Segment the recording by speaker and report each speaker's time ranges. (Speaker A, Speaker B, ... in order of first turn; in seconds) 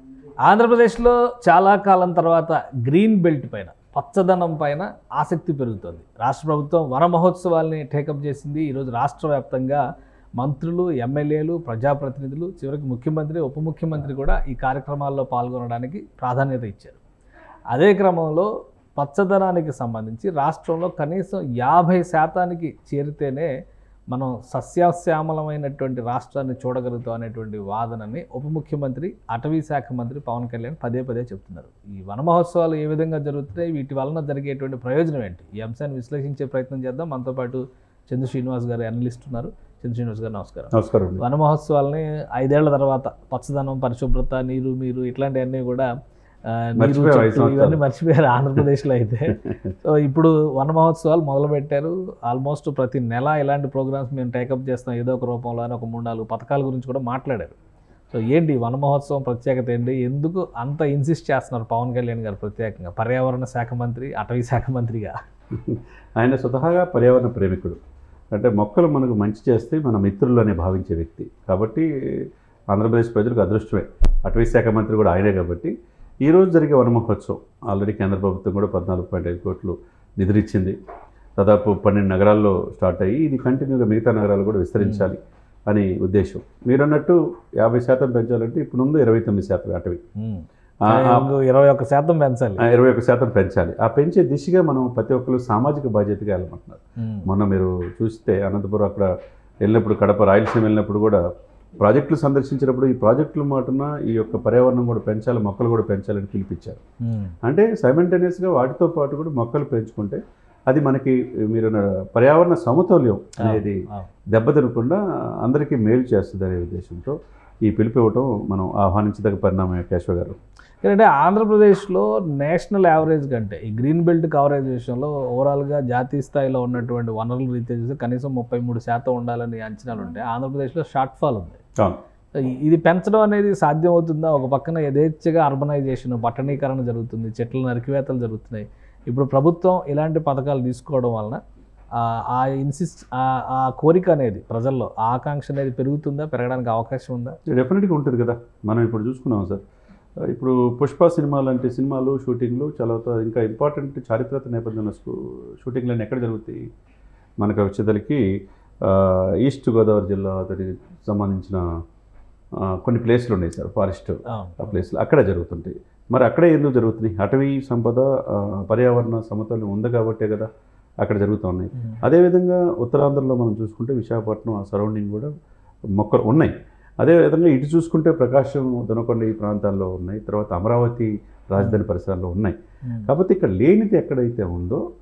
Speaker A: 0.5-9.8, 10.4-17.0, 17.7-23.5, 24.1-45.9, 46.5-57.5, 58.1-65.1, 84.8-85.1, 90.2-92.7, 97.0-97.3, 107.0-107.3, 113.4-114.1, 120.8-131.6, 132.4-141.4, 142.0-147.4, 164.3-164.8, 182.8-183.1
Speaker B: 40.7-41.2, 46.8-47.8, 65.5-67.8, 68.3-75.7, 76.2-80.8, 81.4-90.0, 90.9-91.3, 92.6-99.1, 99.6-101.2, 101.8-106.8, 107.5-113.8, 114.3-120.4, 147.5-149.6, 150.3-156.6, 157.4-158.2, 158.8-161.6, 162.6-170.5, 171.0-175.3, 176.0-184.8